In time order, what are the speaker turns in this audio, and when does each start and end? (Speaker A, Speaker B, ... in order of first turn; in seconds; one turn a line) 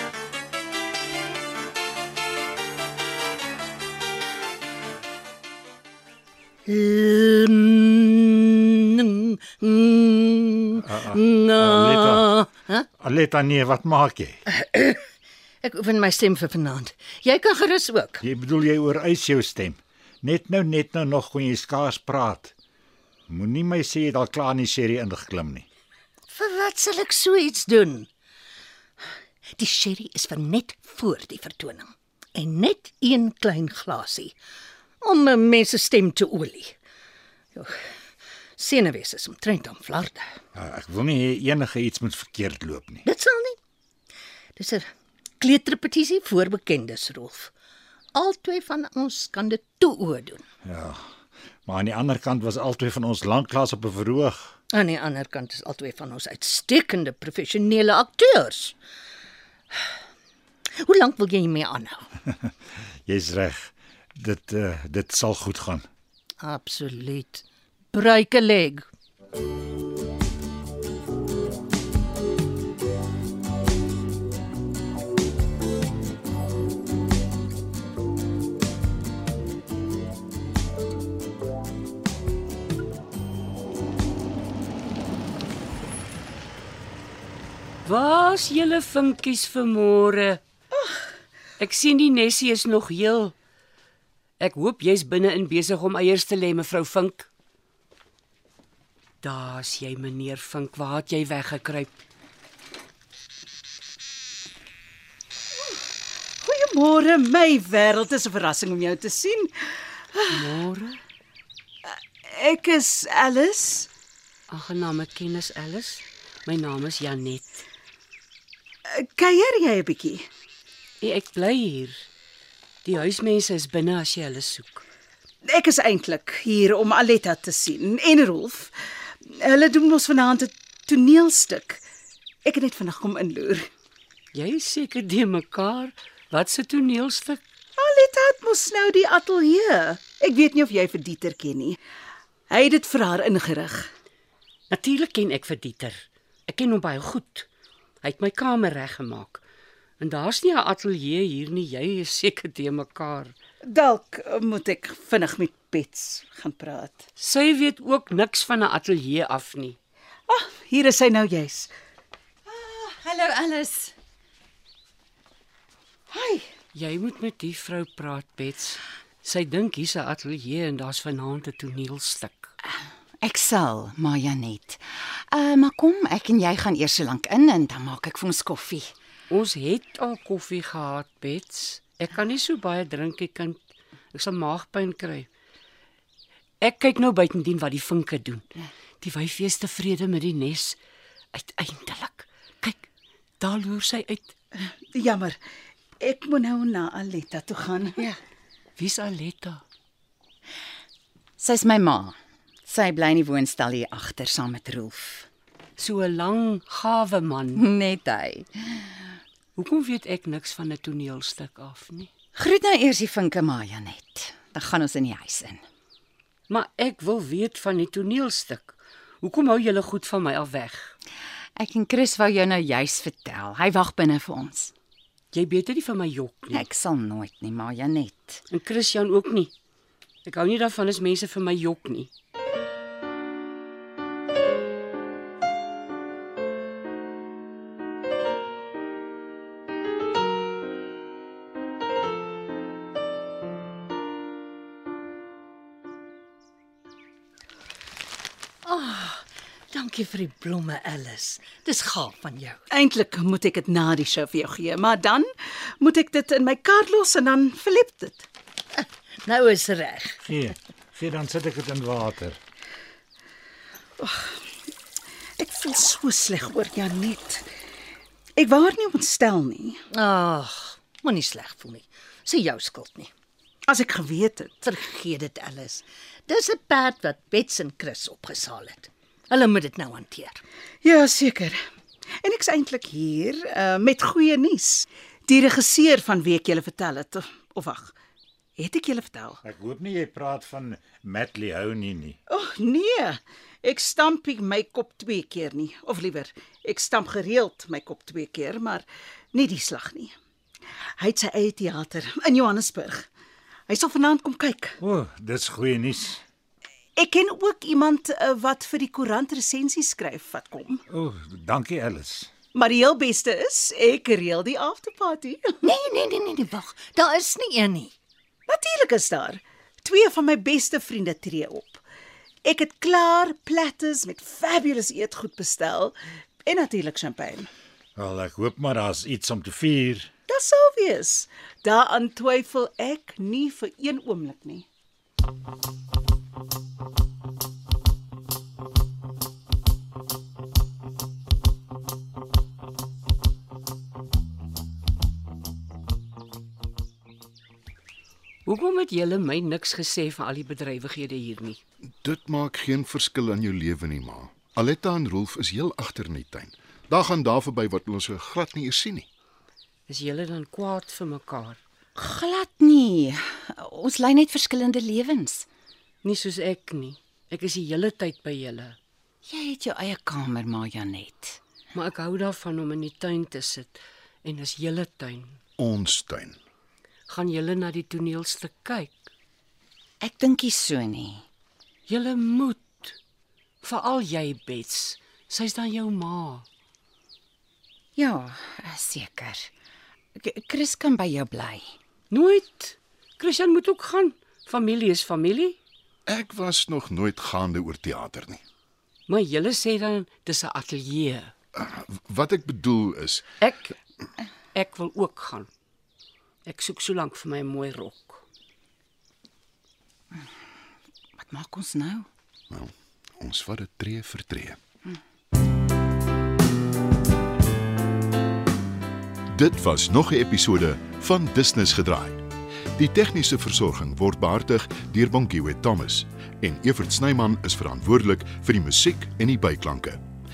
Speaker A: 6.7-12.9
Speaker B: 10.8-12.4
Speaker B: 13.0-14.4
Speaker A: 14.5-15.0
Speaker A: 15.6-18.2
Speaker B: 18.2-22.5
Speaker B: 23.3-25.7
Speaker A: 26.3-28.1
Speaker A: 29.6-34.3
Speaker A: 35.0-36.7
Speaker A: 38.6-40.3
Speaker B: 40.5-43.0
Speaker A: 43.0-43.6
Speaker A: 44.5-44.9
Speaker A: 45.4-47.5
Speaker A: 48.1-50.4
Speaker B: 50.6-51.0
Speaker B: 51.6-54.5
Speaker A: 54.7-58.7
Speaker A: 60.8-62.1
Speaker B: 62.3-62.5
Speaker B: 63.0-65.8
Speaker A: 66.4-68.9
Speaker C: 87.8-90.4
Speaker C: 91.6-93.3
Speaker C: 94.4-97.3
Speaker C: 99.2-102.0
Speaker D: 106.4-110.5
Speaker C: 110.3-111.0
Speaker D: 111.8-113.9
Speaker C: 114.5-117.5
Speaker D: 118.9-120.3
Speaker C: 121.0-122.0
Speaker C: 122.8-124.8
Speaker D: 125.4-131.8
Speaker D: 132.4-133.7
Speaker C: 134.3-137.4
Speaker D: 137.8-141.8
Speaker D: 142.5-143.9
Speaker C: 144.7-147.5
Speaker C: 148.0-149.4
Speaker C: 150.0-153.3
Speaker D: 153.6-157.1
Speaker C: 157.2-159.8
Speaker D: 160.3-161.7
Speaker E: 162.5-163.9
Speaker D: 166.1-166.5
Speaker C: 166.7-172.5
Speaker E: 172.6-178.9
Speaker C: 179.3-183.6
Speaker C: 184.1-185.3
Speaker C: 186.6-188.4
Speaker C: 189.0-190.8
Speaker C: 191.3-192.9
Speaker C: 193.4-194.3
Speaker D: 194.9-195.4
Speaker D: 196.0-198.0
Speaker C: 198.8-199.6
Speaker E: 201.4-202.1
Speaker E: 202.7-205.3
Speaker C: 205.8-207.6
Speaker E: 207.5-209.1
Speaker C: 209.5-212.1
Speaker E: 212.3-215.6
Speaker C: 216.5-220.9
Speaker E: 221.6-224.7
Speaker C: 225.3-226.7
Speaker E: 226.5-228.4
Speaker C: 228.5-229.5
Speaker C: 230.2-232.1
Speaker A: 248.6-252.6
Speaker D: 252.7-258.3
Speaker A: 259.2-260.2
Speaker B: 260.2-262.4
Speaker D: 264.0-264.4
Speaker D: 265.4-267.5
Speaker D: 268.4-269.8
Speaker A: 269.9-273.1
Speaker D: 273.7-274.6
Speaker A: 274.6-280.4
Speaker D: 280.8-281.6
Speaker D: 282.2-287.9
Speaker D: 288.6-289.4
Speaker B: 289.4-292.2
Speaker D: 292.3-300.1
Speaker D: 301.0-303.1
Speaker D: 303.7-304.8
Speaker B: 304.8-306.2
Speaker D: 306.9-310.8
Speaker B: 310.9-312.3
Speaker D: 312.5-315.6
Speaker A: 315.6-317.9
Speaker D: 318.5-321.8
Speaker D: 322.4-327.5
Speaker B: 327.9-330.1
Speaker D: 330.3-334.6
Speaker C: 348.4-351.6
Speaker F: 352.0-359.1
Speaker C: 359.9-361.6
Speaker E: 361.9-365.4
Speaker C: 366.0-368.8
Speaker E: 369.3-371.4
Speaker C: 371.7-375.4
Speaker F: 375.6-376.4
Speaker C: 377.1-379.1
Speaker E: 380.0-381.2
Speaker C: 381.9-383.0
Speaker C: 383.6-386.4
Speaker E: 387.9-389.5
Speaker E: 390.1-391.7
Speaker C: 392.1-395.6
Speaker F: 396.1-398.4
Speaker C: 399.1-401.3
Speaker F: 401.5-403.2
Speaker C: 403.4-403.7
Speaker C: 404.5-405.5
Speaker C: 406.4-408.2
Speaker E: 411.2-412.1
Speaker F: 412.5-414.6
Speaker F: 419.3-422.2
Speaker F: 422.8-430.0